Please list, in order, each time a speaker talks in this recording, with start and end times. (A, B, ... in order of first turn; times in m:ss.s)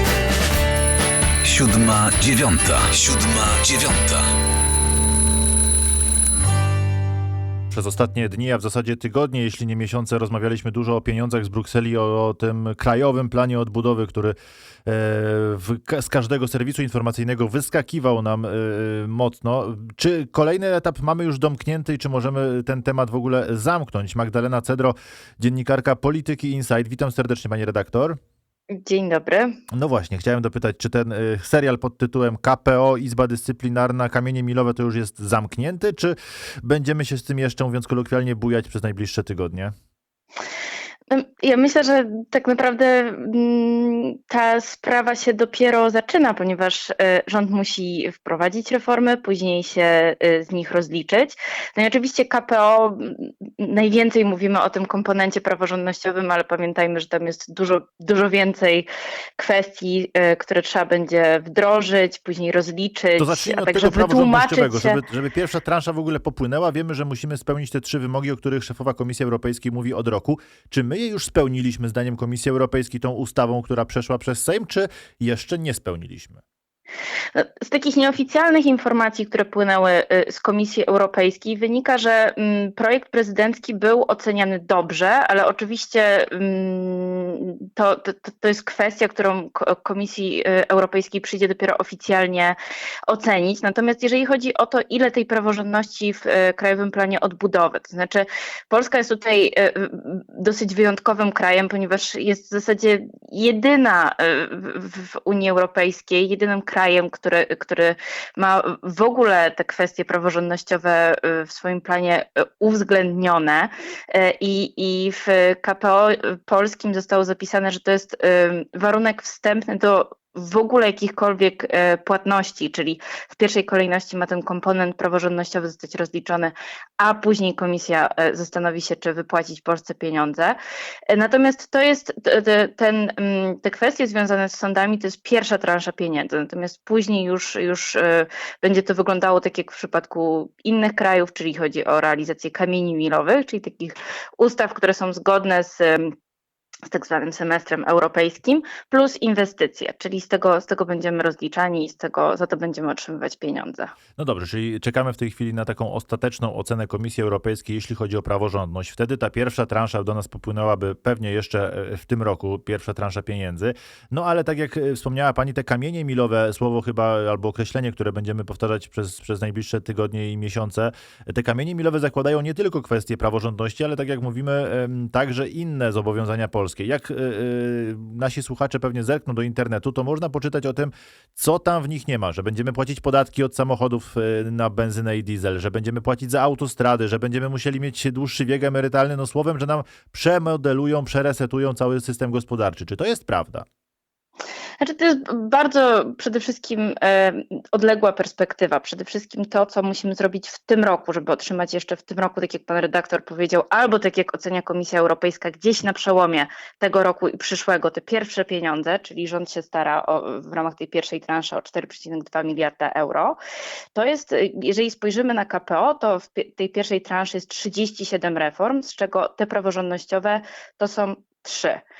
0:01.4-0:04.2 A
0:07.7-0:28.2 B
0:28.7-0:29.6 C
0:29.7-0:39.7 B
0:41.1-0:58.8 C
0:59.4-1:05.0 C
1:03.2-1:16.4 B
1:17.3-1:32.6 C
1:33.1-2:10.6 C
2:11.1-2:26.1 C
2:26.9-2:33.9 C
2:34.2-3:13.6 B
3:14.8-3:33.4 C
3:33.9-3:41.8 C